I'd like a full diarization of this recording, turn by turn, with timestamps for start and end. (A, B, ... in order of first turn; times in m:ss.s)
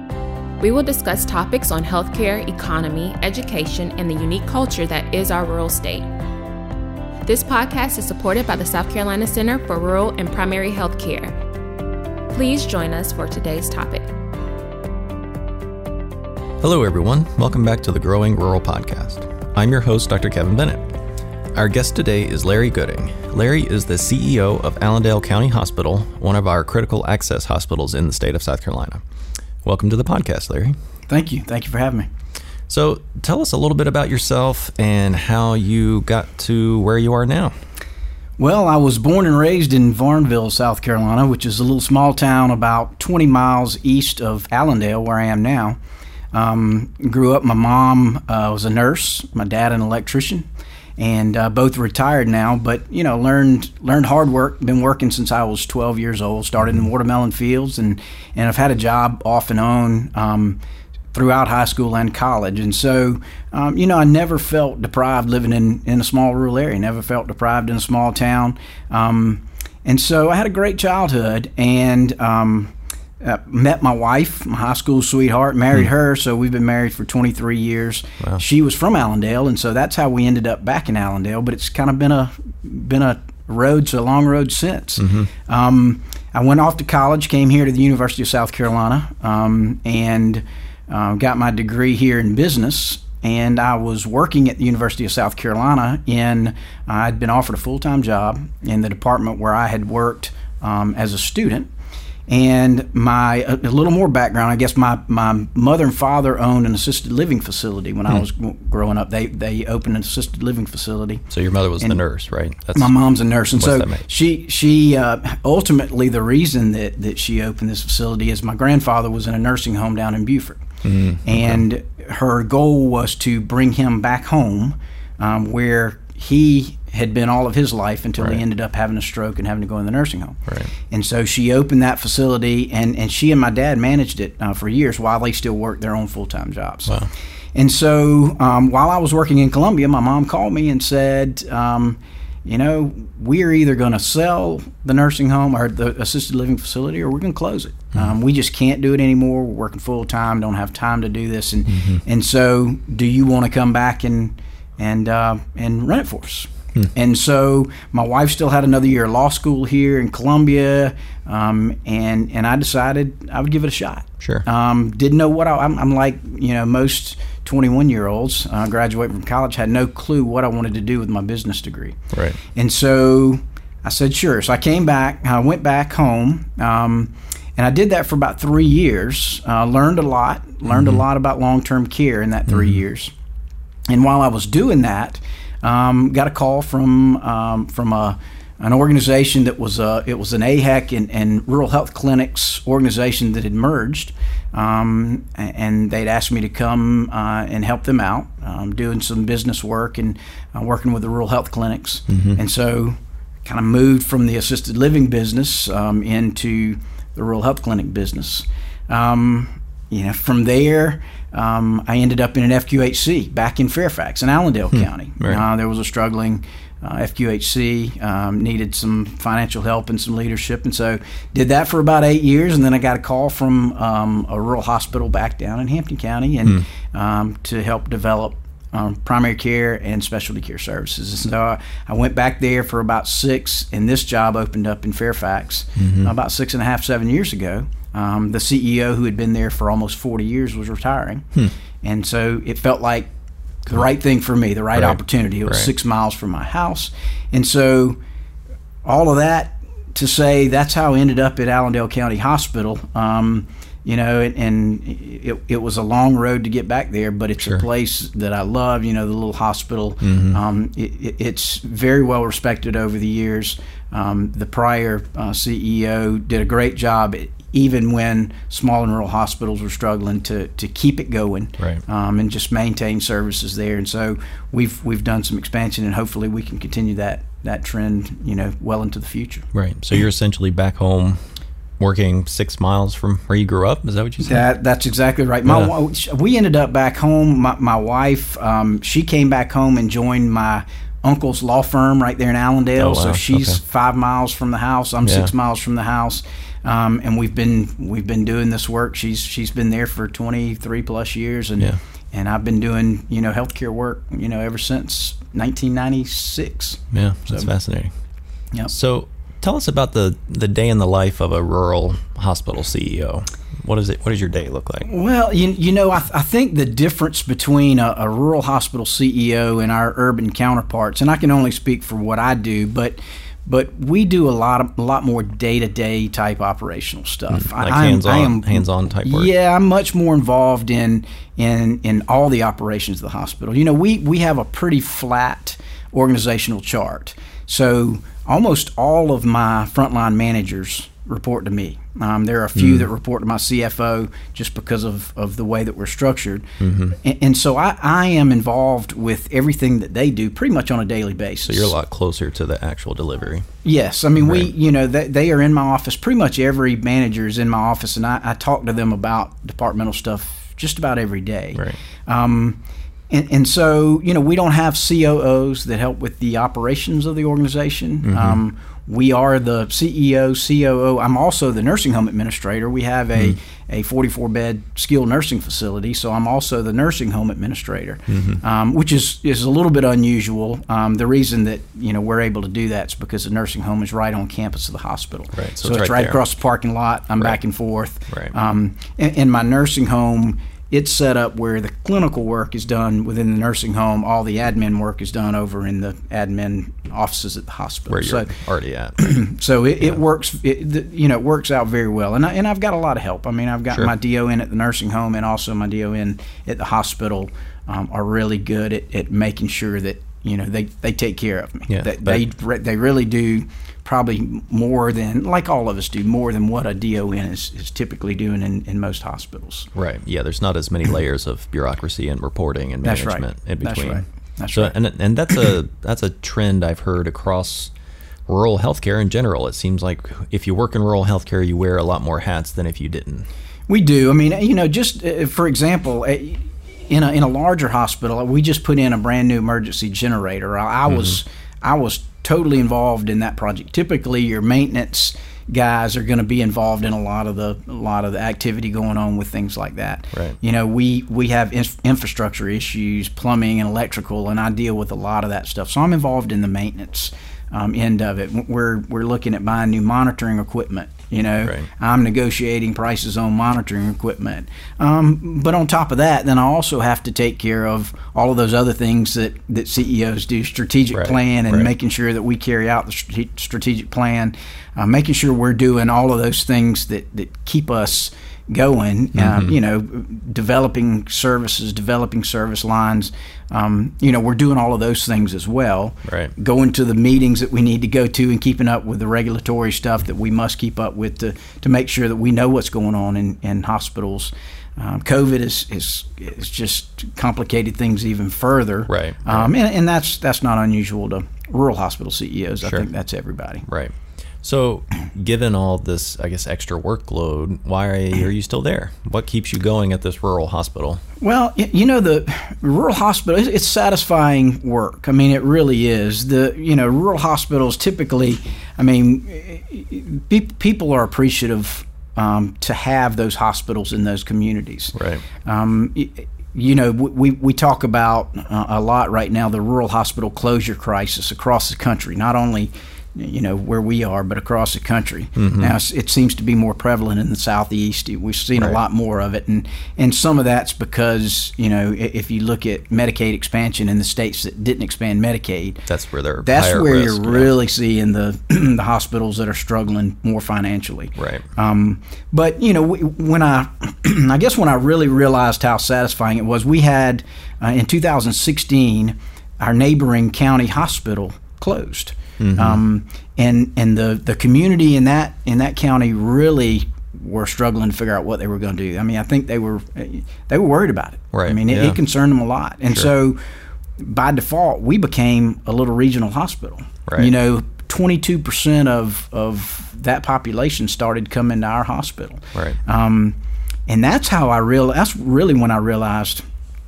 0:00.6-0:06.1 A
0:07.2-0:11.3 A
0:12.3-0:14.1 A
0:16.6-0:21.0 B
0:21.5-0:29.0 B
0:29.6-0:30.8 B
0:31.1-0:32.1 C
0:32.7-0:37.5 B
0:38.4-0:45.8 C
0:46.3-0:50.4 C
0:51.0-1:00.6 C
1:01.1-1:41.7 C
1:25.0-1:25.3 B
1:42.3-1:52.0 C
1:51.3-1:52.9 B
1:52.7-2:00.6 C
1:53.5-1:54.0 B
2:00.8-2:01.6 B
2:01.2-2:10.4 C
2:10.9-2:17.0 C
2:16.9-2:17.1 B
2:17.5-2:52.0 C
2:31.7-2:32.0 B
2:44.2-2:44.4 B
2:52.1-2:52.4 B
2:52.5-3:03.1 C
3:02.5-3:02.8 B
3:03.9-4:01.3 C
3:22.1-3:22.4 B
3:55.8-3:56.1 B
4:01.8-4:03.1 C
4:03.6-4:08.0 C
4:04.7-4:05.7 B
4:08.8-4:39.5 C
4:20.0-4:20.4 B
4:39.5-4:41.2 B
4:41.8-4:44.4 B
4:44.2-5:07.5 C
4:45.4-4:45.7 B
4:52.8-4:53.6 B
4:55.0-4:55.3 B
5:06.9-5:07.9 B
5:08.7-5:14.9 B
5:14.8-5:51.7 C
5:27.3-5:29.3 B
5:42.5-5:42.9 B
5:46.6-5:47.0 B
5:51.4-5:53.5 B
5:53.6-6:02.6 C
5:54.2-5:54.5 B
6:01.5-6:01.8 B
6:03.1-6:38.3 C
6:08.0-6:08.4 B
6:18.1-6:18.4 B
6:25.3-6:26.2 B
6:37.9-6:39.0 B
6:39.0-6:59.7 C
6:51.7-6:52.2 B
6:59.7-7:07.7 B
7:02.8-7:04.7 C
7:08.3-7:13.3 B
7:13.7-8:23.6 C
7:30.1-7:30.4 B
7:50.9-7:51.7 B
7:59.1-7:59.5 B
8:06.0-8:06.3 B
8:18.9-8:19.5 B
8:22.6-8:22.9 B
8:23.6-8:31.0 B
8:31.2-9:05.9 C
8:44.9-8:45.2 B
8:55.4-8:55.8 B
9:05.9-9:07.6 B
9:06.4-9:33.4 C
9:11.2-9:11.4 B
9:22.4-9:22.8 B
9:31.3-9:32.0 B
9:34.0-9:43.4 C
9:37.1-9:37.3 B
9:43.9-9:46.4 C